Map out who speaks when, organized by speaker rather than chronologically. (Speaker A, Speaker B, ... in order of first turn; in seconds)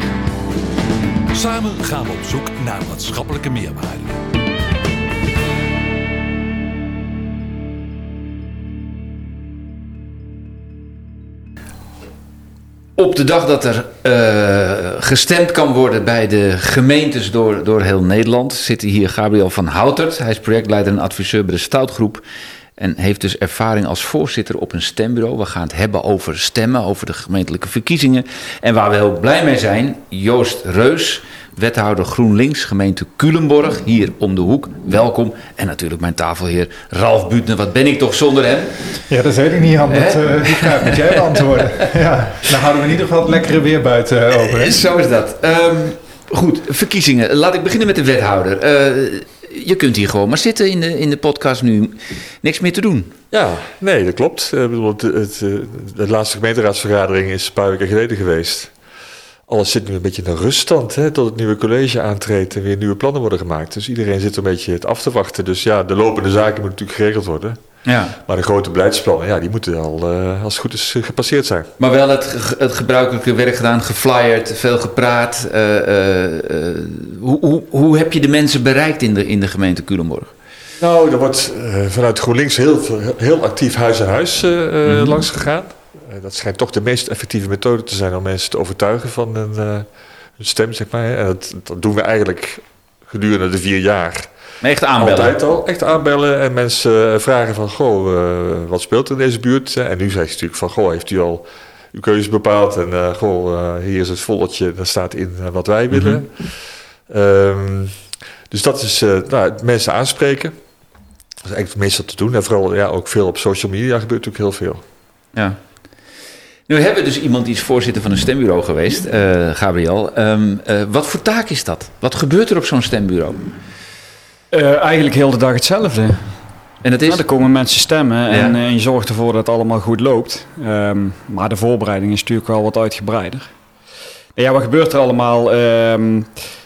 Speaker A: 1.3-4.1
Speaker B: 13.0-22.2, 22.8-39.0, 39.9-41.0, 44.4-53.1, 67.8-68.2, 71.8-80.3, 84.8-85.2, 94.6-95.4, 105.9-106.2, 115.3-115.6, 116.7-123.5, 126.8-127.2, 128.3-128.6
Speaker C: 39.1-44.8
Speaker D: 53.3-58.7, 59.5-67.6, 68.2-71.7, 80.8-94.3, 95.0-108.0, 108.5-110.6, 111.4-114.8
Speaker E: 124.5-126.4, 127.1-133.5, 134.4-136.3